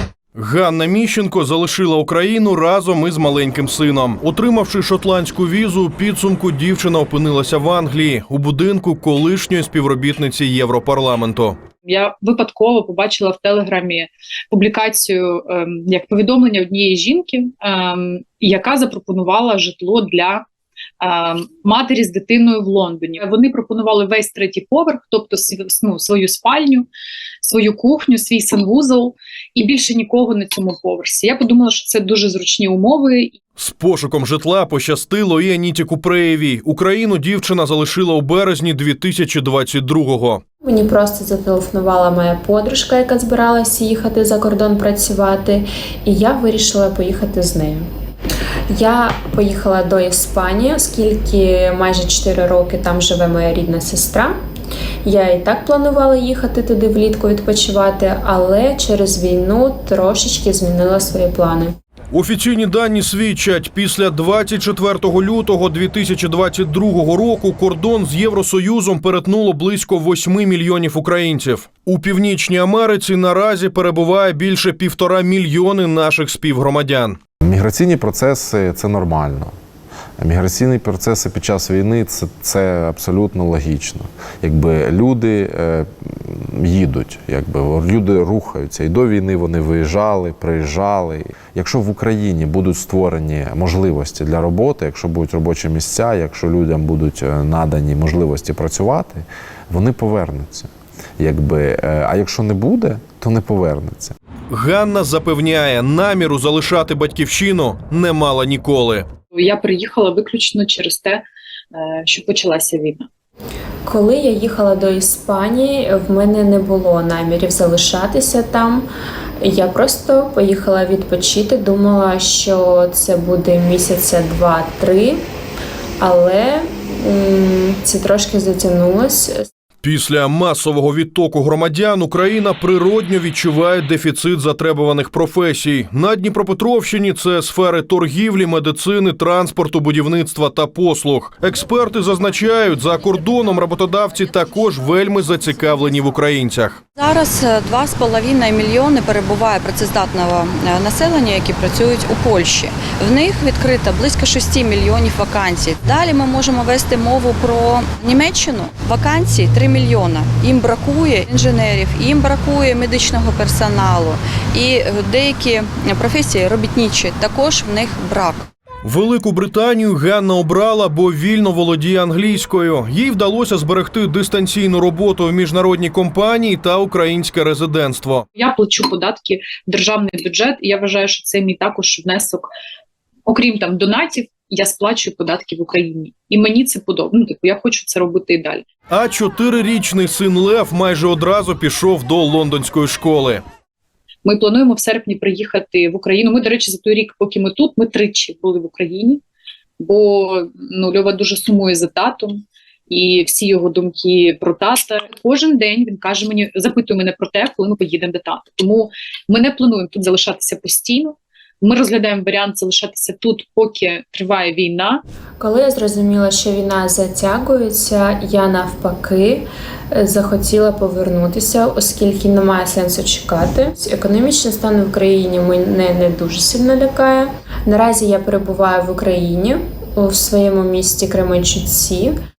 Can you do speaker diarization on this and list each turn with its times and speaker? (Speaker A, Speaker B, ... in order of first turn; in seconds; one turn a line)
Speaker A: 0.3-11.6
Speaker B: 11.8-20.4
Speaker B: 21.0-26.9
Speaker B: 27.4-33.3
Speaker A: 33.6-40.4
Speaker C: 40.6-47.9
Speaker C: 48.7-54.3
Speaker C: 55.0-61.7
Speaker A: 62.1-77.2
Speaker D: 77.4-79.5
Speaker D: 80.2-104.1
Speaker A: 104.5-109.1
Speaker B: 109.3-111.2
Speaker B: 111.7-113.1
Speaker C: 113.8-118.9
Speaker C: 119.4-125.2
Speaker C: 126.0-129.4
Speaker A: 129.8-146.8
Speaker E: 147.0-168.5
Speaker A: 168.8-178.2
Speaker B: 178.3-182.5
Speaker B: 183.3-188.7
Speaker A: 188.9-193.4
Speaker B: 194.2-199.2
Speaker B: 199.8-215.0
Speaker C: 215.4-232.2